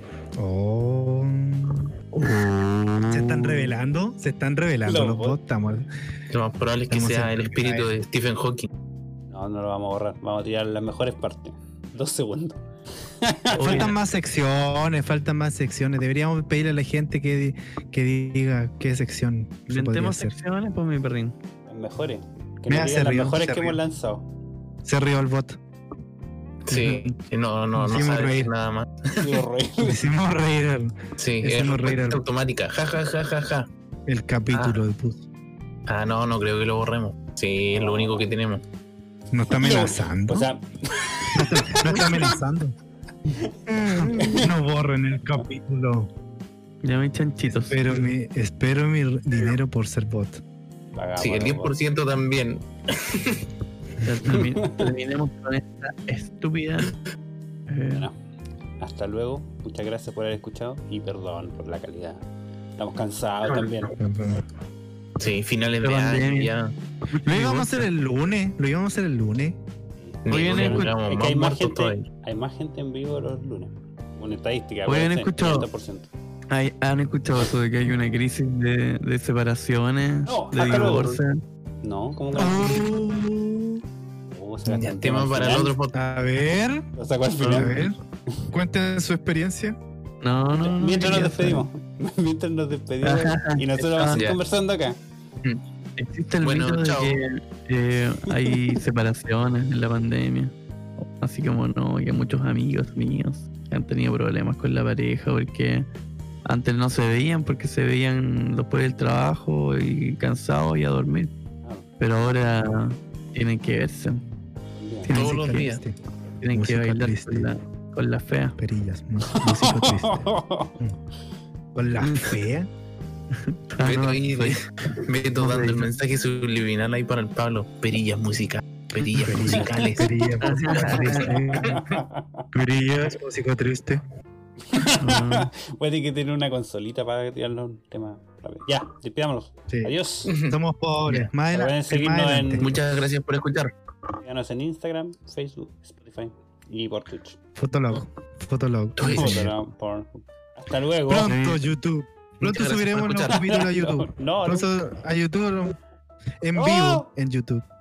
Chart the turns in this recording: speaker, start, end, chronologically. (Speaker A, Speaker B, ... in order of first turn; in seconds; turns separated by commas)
Speaker A: 0.4-1.9, Speaker B: 2.1-3.8, Speaker A: 3.1-5.8, Speaker C: 4.8-5.4, Speaker D: 6.3-8.7, Speaker A: 6.9-7.9, Speaker C: 9.3-12.6, Speaker C: 13.2-13.9, Speaker B: 13.5-14.0, Speaker A: 13.6-20.3, Speaker B: 19.7-21.4, Speaker C: 21.7-24.2, Speaker A: 22.7-23.8, Speaker A: 24.8-25.6, Speaker A: 26.6-27.1, Speaker D: 26.7-29.2, Speaker A: 27.7-28.5, Speaker C: 29.2-30.0, Speaker A: 29.8-32.2, Speaker D: 31.2-33.7, Speaker A: 34.1-35.2, Speaker D: 34.5-34.8, Speaker D: 35.9-38.6, Speaker C: 37.8-38.2, Speaker A: 39.3-40.5, Speaker C: 39.5-42.4, Speaker A: 41.3-42.7, Speaker C: 43.4-44.5, Speaker A: 43.7-46.1, Speaker B: 46.8-48.0, Speaker A: 47.5-50.4, Speaker C: 50.9-51.7, Speaker D: 51.2-53.4, Speaker B: 54.0-56.9, Speaker C: 54.3-54.9, Speaker B: 57.7-58.1, Speaker C: 58.8-62.2, Speaker C: 62.8-63.9, Speaker A: 64.0-64.4, Speaker D: 65.2-66.7, Speaker B: 65.8-66.5, Speaker B: 67.1-67.9, Speaker A: 67.2-69.6, Speaker C: 70.0-76.1, Speaker D: 70.2-72.0, Speaker B: 70.3-70.9, Speaker B: 74.8-75.7, Speaker B: 76.5-81.4, Speaker C: 80.2-81.2, Speaker C: 81.8-82.9, Speaker A: 82.3-83.8, Speaker C: 84.3-85.7, Speaker A: 84.7-84.9, Speaker D: 84.8-85.9, Speaker A: 85.9-86.8, Speaker C: 87.0-88.4, Speaker B: 87.4-87.8, Speaker A: 87.4-88.0, Speaker A: 88.5-89.8, Speaker B: 90.2-91.7, Speaker C: 90.5-95.0, Speaker B: 93.0-94.2, Speaker D: 94.1-94.4, Speaker B: 96.0-105.9, Speaker D: 96.4-97.2, Speaker B: 106.4-111.3, Speaker B: 112.0-114.2, Speaker C: 114.8-115.1, Speaker A: 115.0-116.0, Speaker D: 115.1-115.8, Speaker B: 115.2-115.7, Speaker B: 116.4-118.6, Speaker A: 116.5-117.5, Speaker A: 118.6-121.0, Speaker C: 119.3-120.7, Speaker A: 121.7-122.7, Speaker B: 123.3-124.6, Speaker D: 123.8-131.8, Speaker B: 125.3-126.0, Speaker A: 129.1-134.0, Speaker B: 130.4-131.3, Speaker C: 131.6-132.4, Speaker C: 134.7-140.3, Speaker B: 135.0-135.5, Speaker D: 140.2-140.6, Speaker A: 140.4-142.7, Speaker C: 141.4-142.7, Speaker D: 142.6-143.7, Speaker C: 144.2-147.4, Speaker A: 147.6-149.5, Speaker D: 149.0-149.4, Speaker C: 149.1-151.3, Speaker A: 151.1-155.8, Speaker B: 151.2-151.6, Speaker D: 152.4-153.4, Speaker B: 152.5-153.3, Speaker C: 153.3-154.7, Speaker A: 156.4-157.6, Speaker C: 156.5-157.1